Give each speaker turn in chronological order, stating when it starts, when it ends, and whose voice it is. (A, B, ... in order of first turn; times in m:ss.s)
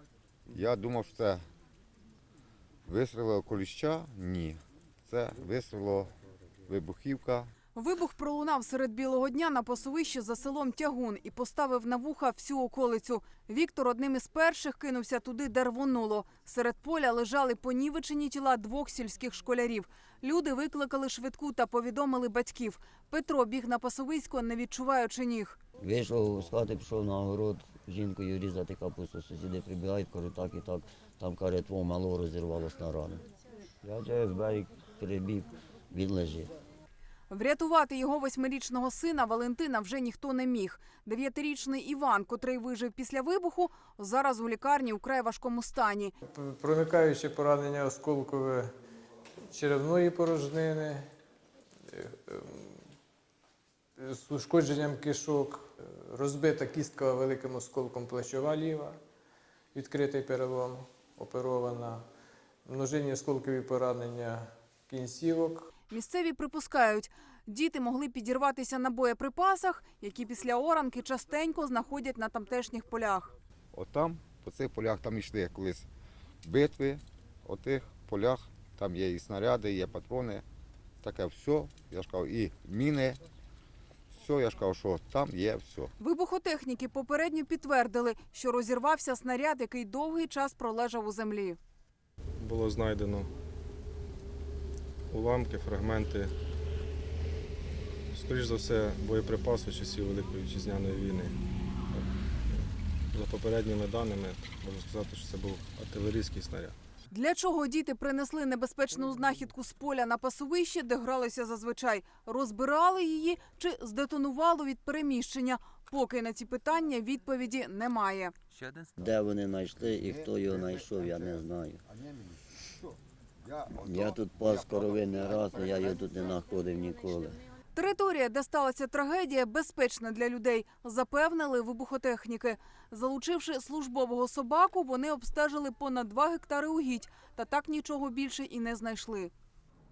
0:00.5-0:01.4 A
0:02.9-0:06.1 A
0:06.7-0:07.5 A
0:07.7-0:25.6 B
0:25.8-0:33.2 C
0:33.8-0:36.5 C
0:37.3-0:46.1 B
0:46.3-0:48.7 D
0:49.5-0:51.0 D
0:51.9-0:52.8 D
0:54.0-0:59.0 D
0:59.7-1:02.0 D
1:02.6-1:05.6 D
1:05.9-1:13.3 B
1:13.7-1:15.9 A
1:16.4-1:20.4 A
1:21.0-1:23.2 A
1:24.1-1:25.9 A
1:26.0-1:31.6 B
1:32.4-1:33.3 E
1:35.1-1:36.3 E
1:38.1-1:41.4 E
1:41.9-1:46.8 E
1:47.1-1:58.3 B
1:59.0-2:01.8 C
2:03.7-2:07.4 C
2:07.7-2:19.3 B